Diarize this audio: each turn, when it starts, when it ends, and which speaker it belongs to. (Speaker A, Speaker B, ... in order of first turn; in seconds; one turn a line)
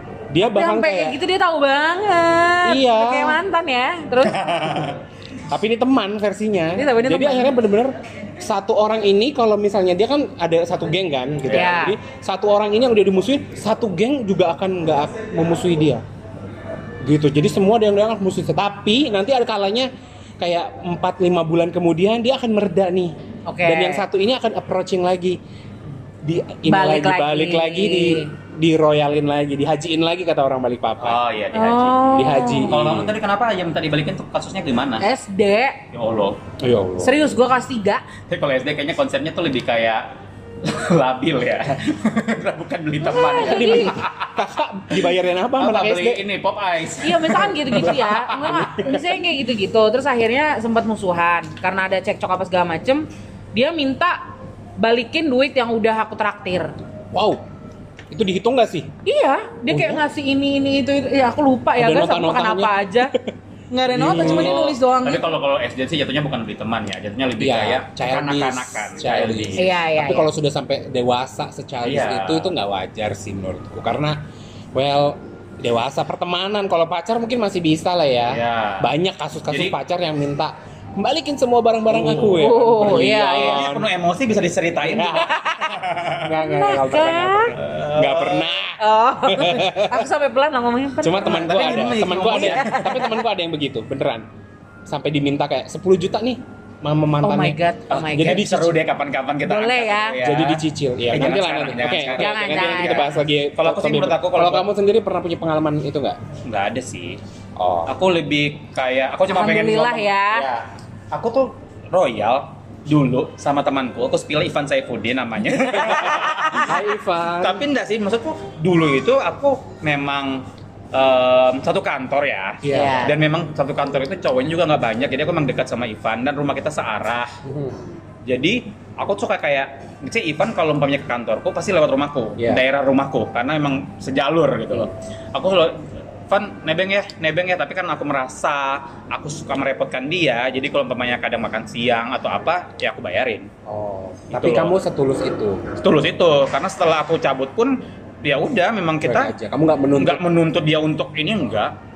Speaker A: 0.3-1.2
Speaker B: 0.4-4.5
Speaker A: 2.6-3.4
Speaker C: 4.2-5.0
Speaker A: 5.5-16.0
Speaker B: 6.8-7.5
Speaker B: 11.5-12.0
Speaker A: 17.0-25.4
Speaker B: 23.5-24.1
Speaker A: 26.2-31.2
Speaker B: 26.6-28.3
Speaker C: 31.0-35.0
Speaker B: 31.5-32.7
Speaker A: 32.1-33.1
Speaker B: 35.0-35.8
Speaker C: 35.9-36.4
Speaker A: 36.6-37.3
Speaker B: 37.0-38.1
Speaker C: 38.3-40.1
Speaker C: 40.6-48.1
Speaker B: 43.0-43.9
Speaker A: 43.3-46.2
Speaker B: 47.0-56.7
Speaker A: 47.6-49.1
Speaker A: 57.1-57.4
Speaker A: 58.1-58.9
Speaker B: 59.0-63.1
Speaker A: 59.7-60.0
Speaker A: 61.8-63.3
Speaker B: 63.7-65.2
Speaker A: 63.9-64.7
Speaker C: 64.0-69.6
Speaker A: 67.4-74.2
Speaker B: 69.6-70.3
Speaker C: 71.8-72.5
Speaker A: 74.7-83.9
Speaker C: 78.3-78.9
Speaker C: 79.5-79.7
Speaker C: 81.9-86.3
Speaker B: 82.2-83.7
Speaker A: 84.8-85.5
Speaker B: 85.1-85.8
Speaker A: 86.2-90.1
Speaker B: 86.4-87.5
Speaker C: 87.5-88.5
Speaker B: 88.8-93.2
Speaker A: 91.0-94.2
Speaker C: 91.2-92.8
Speaker A: 94.9-98.8
Speaker B: 97.2-98.5
Speaker C: 97.9-104.7
Speaker B: 99.4-100.2
Speaker A: 100.2-106.2
Speaker B: 102.2-103.2
Speaker C: 106.5-107.2
Speaker A: 107.5-107.9
Speaker C: 107.8-116.8
Speaker B: 109.3-110.5
Speaker B: 115.8-116.8
Speaker A: 115.8-117.7
Speaker C: 117.4-127.3
Speaker A: 122.6-123.1
Speaker B: 122.7-123.2
Speaker A: 127.4-127.8
Speaker C: 128.2-143.5
Speaker A: 132.4-132.6
Speaker A: 143.7-145.6
Speaker C: 144.3-144.8
Speaker C: 145.8-149.3
Speaker A: 149.0-150.2
Speaker C: 149.9-151.7